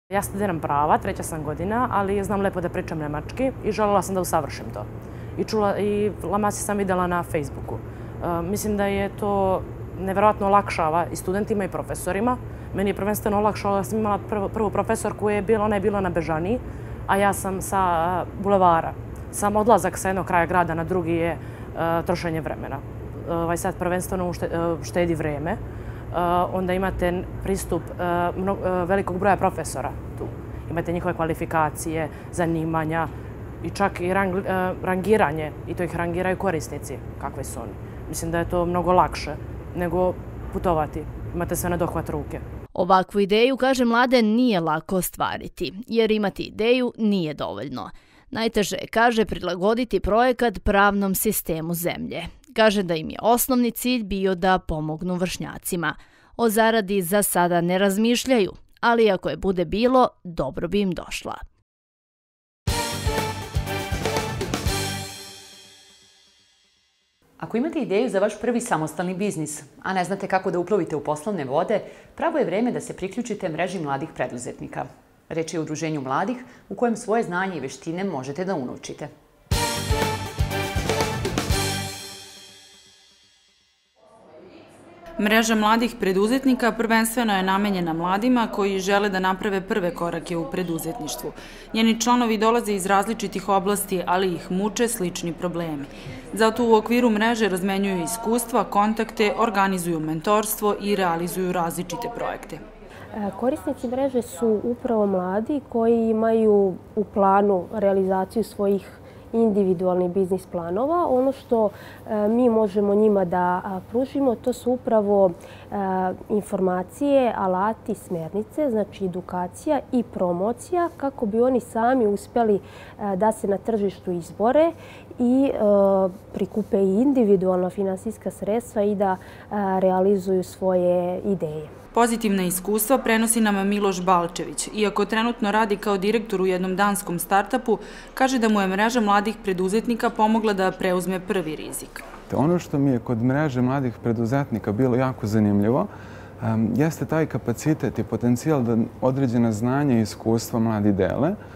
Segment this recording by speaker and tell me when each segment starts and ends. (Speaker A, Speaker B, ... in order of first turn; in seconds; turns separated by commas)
Speaker A: 0.1-25.6, Speaker A: 26.1-33.1, Speaker A: 33.6-42.4, Speaker B: 42.7-61.4, Speaker C: 67.4-79.1, Speaker D: 85.2-102.6, Speaker E: 103.2-131.7, Speaker D: 131.9-142.1, Speaker F: 142.3-145.9, Speaker F: 146.4-151.4